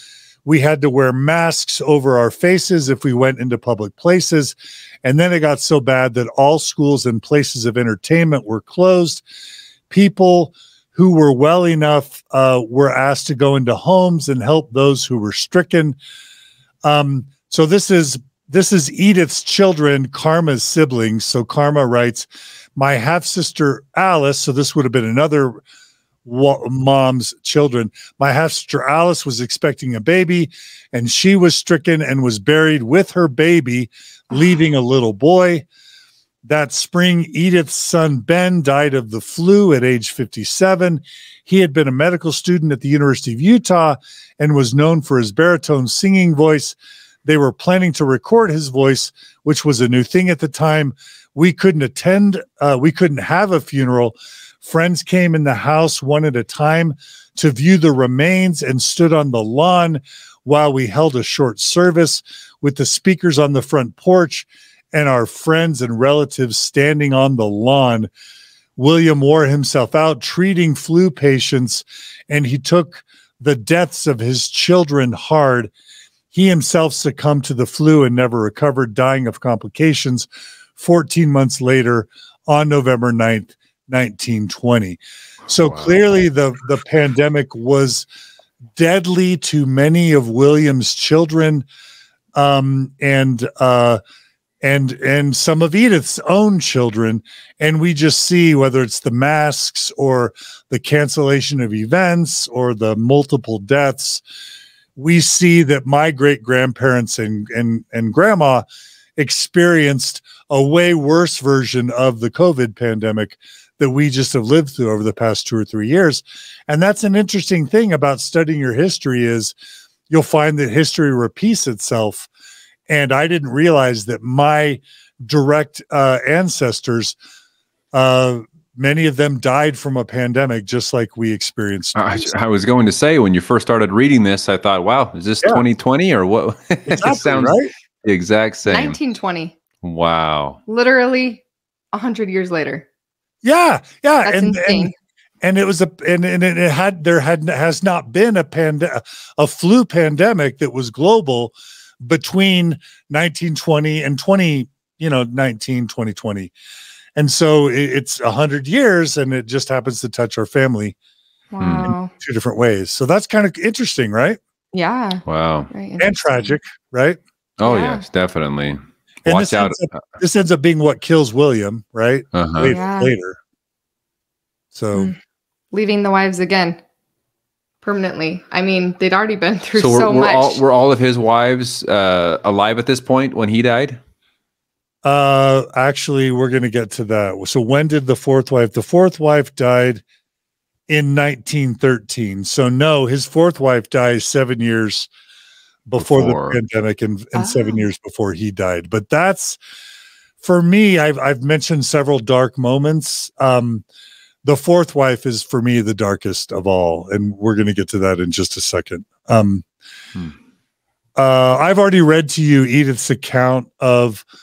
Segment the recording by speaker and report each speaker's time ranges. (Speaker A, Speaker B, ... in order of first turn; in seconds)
Speaker A: 0.5-9.2, 9.9-16.0, 16.9-25.6, 26.2-35.7, 36.5-68.1, 68.8-75.7, 76.3-88.1, 88.8-91.6, 92.4-94.0, 94.6-104.2, 105.0-108.7, 109.2-119.5, 120.1-122.3, 122.9-127.2, 127.9-132.3, 136.9-137.7, 143.4-144.9, 145.4-156.5, 157.2-161.0, 161.9-164.4, 166.0-167.2, 169.3-173.4, 174.7-175.1, 185.1-190.0, 190.9-195.1, 195.9-199.6, 200.4-203.8, 204.4-209.6, 211.2-214.2
Speaker B: 85.6-86.0, 131.9-139.0, 139.8-140.6, 161.6-161.9, 165.3-165.7, 167.6-170.0, 172.3-172.8, 179.8-184.0, 196.0-196.6
Speaker C: 138.7-139.5, 140.7-141.4, 141.9-142.8, 144.2-144.9, 161.5-162.1, 164.7-166.1, 167.6-168.0, 172.7-173.1, 175.7-176.8, 177.8-180.6, 197.4-197.8